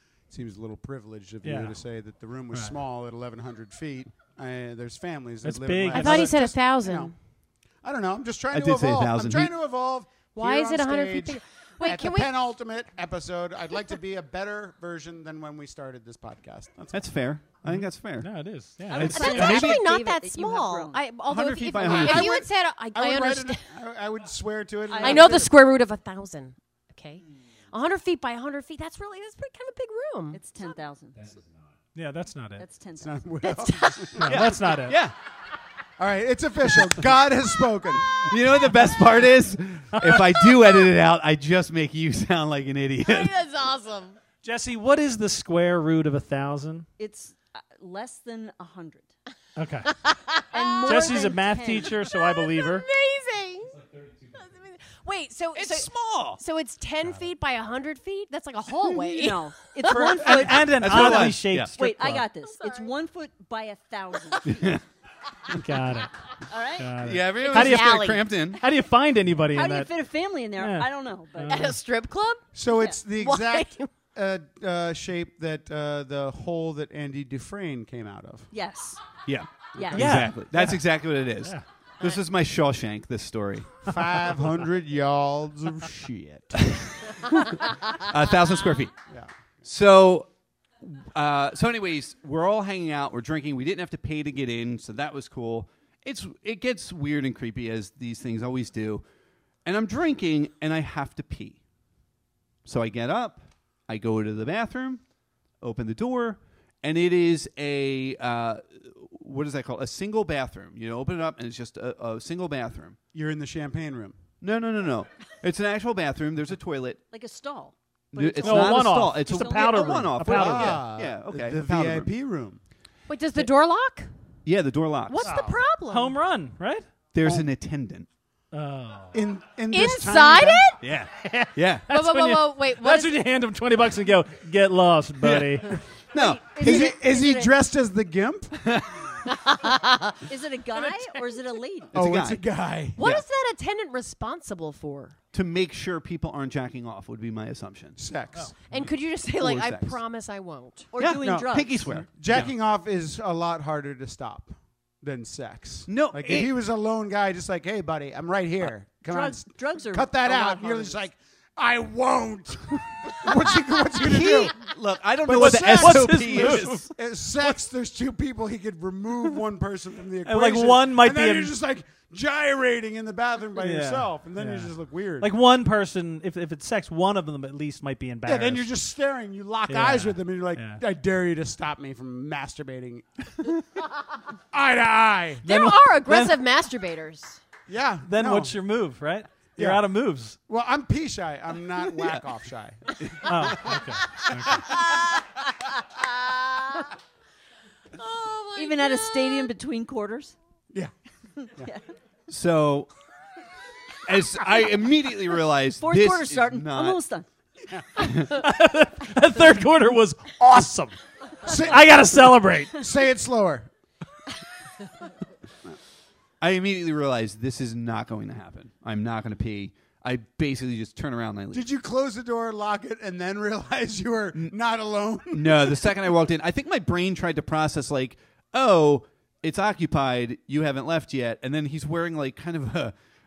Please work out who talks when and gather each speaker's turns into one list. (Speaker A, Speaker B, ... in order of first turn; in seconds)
Speaker A: 0.3-7.1, 7.8-17.0, 21.9-25.5, 33.0-34.3, 36.0-38.4, 72.5-78.5, 83.8-86.6, 113.1-114.2, 120.3-122.6, 129.1-130.7, 136.6-138.8, 141.9-143.0, 148.0-148.5, 151.2-164.6, 165.2-175.3, 178.2-183.6, 184.5-185.5, 187.7-188.6, 189.6-189.9, 190.5-193.5, 207.7-208.0, 211.4-211.9, 212.7-213.7, 221.5-226.0
Speaker B: 1.4-1.8, 5.4-6.3, 17.6-19.2, 31.9-32.6, 34.2-35.0, 40.0-40.2, 44.4-46.9, 49.6-49.9, 50.9-52.9, 60.1-62.2, 65.5-66.1, 66.8-69.9, 70.6-71.8, 79.9-80.8, 118.4-120.8, 125.3-126.9, 128.5-129.2, 131.1-135.8, 165.3-166.9, 170.2-171.5, 173.6-178.7, 179.7-180.8, 185.5-186.4, 188.1-190.4, 193.2-194.7, 208.1-212.8
Speaker C: 5.9-7.1, 10.4-12.3, 19.0-23.6, 25.0-30.4, 33.4-34.3, 43.0-44.2, 50.0-51.3, 52.0-53.8, 54.4-60.5, 62.5-62.9, 67.5-68.2, 71.5-72.5, 73.1-73.9, 123.1-124.1, 125.1-126.2, 129.7-130.8, 131.9-133.2, 139.3-140.2, 143.0-145.2, 148.7-150.9, 185.4-187.4, 194.9-195.2, 196.0-196.9, 197.9-199.5
Speaker D: 8.5-9.5, 16.9-18.3, 18.9-19.9, 21.3-22.4, 34.2-35.1, 38.1-43.4, 55.5-56.4, 60.6-61.7, 64.5-64.8, 67.0-68.6, 79.3-83.9, 86.6-88.9, 89.7-90.3, 90.8-99.0, 99.7-101.6, 102.7-105.0, 105.6-113.0, 114.4-117.0, 118.1-122.1, 124.5-125.4, 127.1-128.1, 130.8-131.9, 135.2-136.9, 138.6-139.1, 141.9-142.4, 145.3-148.0, 149.3-150.0, 151.0-152.5, 155.9-156.5, 164.0-166.9, 202.3-202.9, 204.1-207.0, 208.0-208.4, 216.4-221.6, 225.3-232.9
Speaker E: 18.9-21.0, 24.9-25.4, 30.3-31.3, 32.6-33.2, 47.0-49.1, 50.5-52.0, 58.9-64.8, 66.5-66.9, 69.5-71.8, 78.5-79.2, 79.7-80.2, 117.1-120.2, 136.2-137.5, 140.3-141.9, 150.9-151.8, 159.1-161.0, 198.6-200.3, 201.4-201.8, 205.8-207.3